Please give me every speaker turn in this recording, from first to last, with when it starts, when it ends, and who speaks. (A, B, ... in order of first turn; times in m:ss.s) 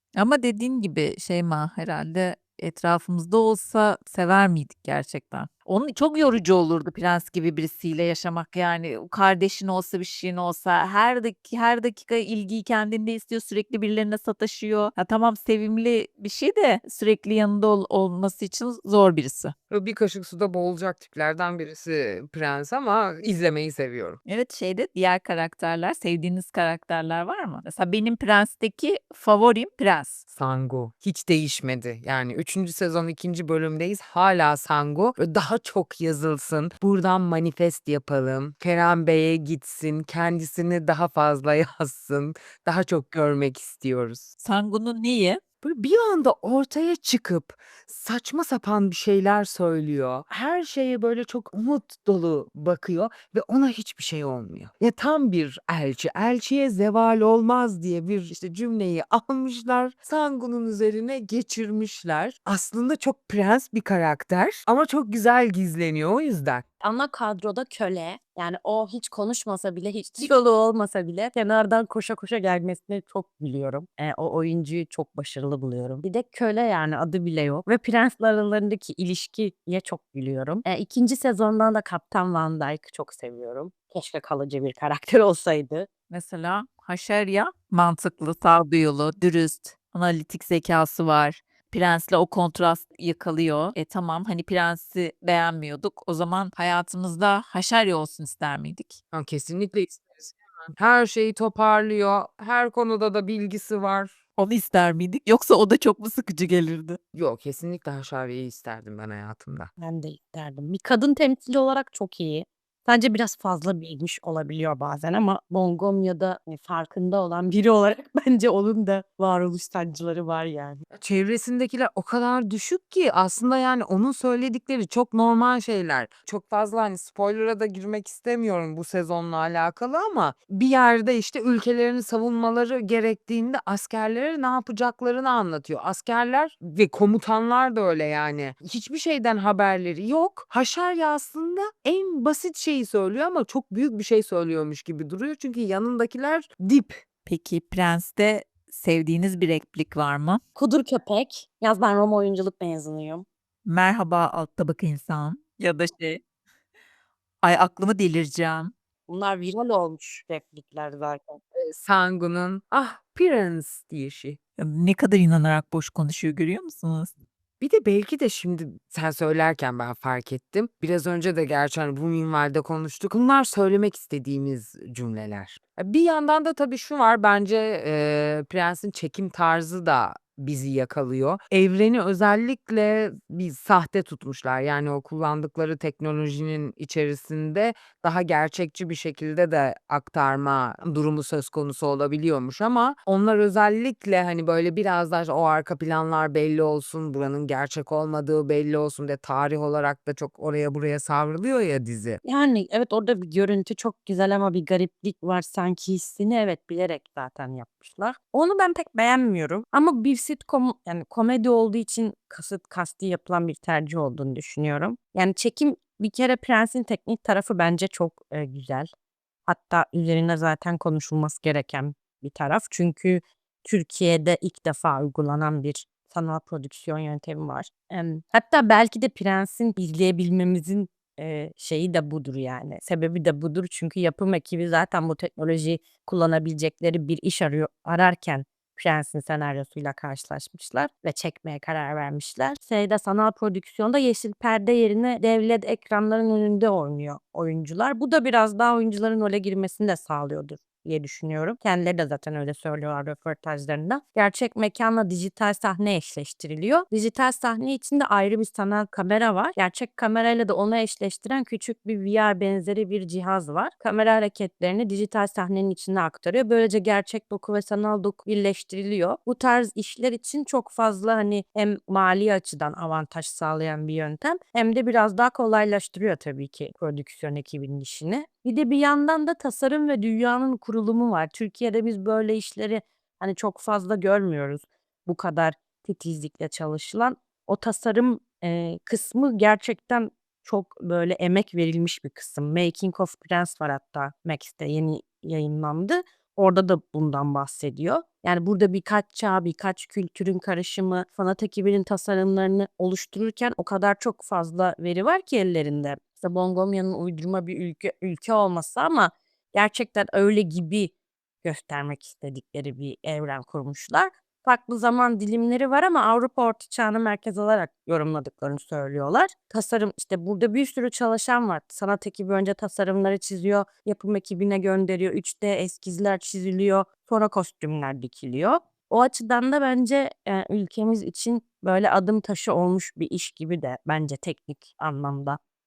0:00.2-0:19.5 A
0:19.7-0:24.2 B
0:24.3-0:30.2 A
0:30.3-0:44.3 B
0:44.4-0:45.4 A
0:45.6-1:06.6 B
1:06.8-1:25.9 C
1:26.1-1:39.0 A
1:39.1-1:44.1 B
1:44.4-1:47.0 A
1:47.2-1:49.7 B
1:49.8-2:00.8 C
2:01.0-2:27.0 B
2:27.3-2:30.4 A
2:30.6-2:33.3 C
2:33.6-2:36.2 A
2:37.4-2:38.7 A
2:39.1-2:41.4 C
2:41.6-2:44.4 B
2:44.6-2:47.1 A
2:47.6-3:22.2 B
3:22.2-3:38.9 C
3:39.5-5:35.4 C